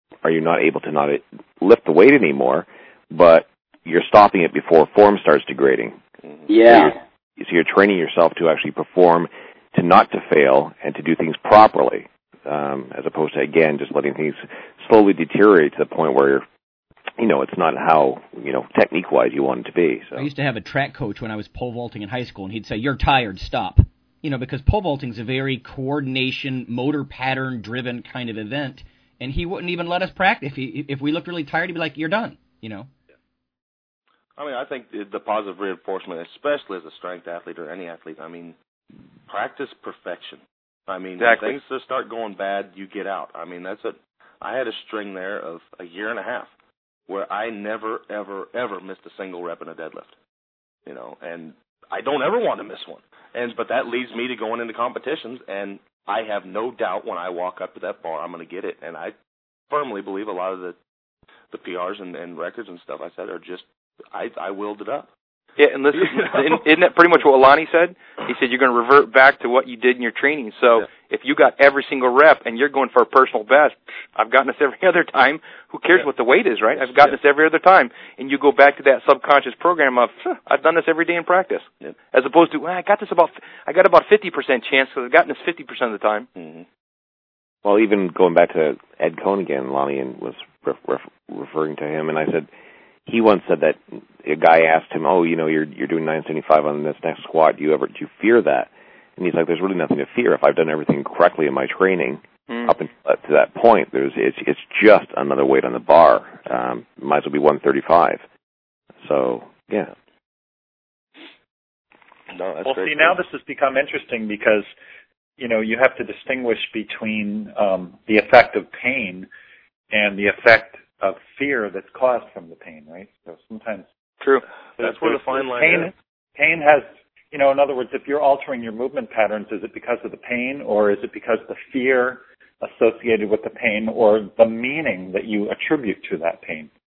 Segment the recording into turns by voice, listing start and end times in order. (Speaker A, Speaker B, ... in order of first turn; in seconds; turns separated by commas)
Speaker A: 0.2-6.0, Speaker B: 6.5-7.0, Speaker A: 6.6-16.4, Speaker A: 17.2-20.3, Speaker B: 20.1-32.9, Speaker C: 34.4-38.5, Speaker C: 39.3-46.5, Speaker D: 41.2-41.5, Speaker C: 47.1-50.1, Speaker C: 50.9-59.1, Speaker C: 59.7-60.8, Speaker C: 61.5-65.1, Speaker D: 65.6-86.3, Speaker C: 65.9-66.6, Speaker C: 86.3-86.7, Speaker A: 87.6-92.5, Speaker A: 93.0-108.2, Speaker D: 102.5-102.7, Speaker A: 109.0-109.9, Speaker C: 112.3-113.2, Speaker E: 112.6-114.7, Speaker E: 115.4-119.3, Speaker E: 119.9-123.8, Speaker C: 124.8-125.9, Speaker E: 124.8-136.7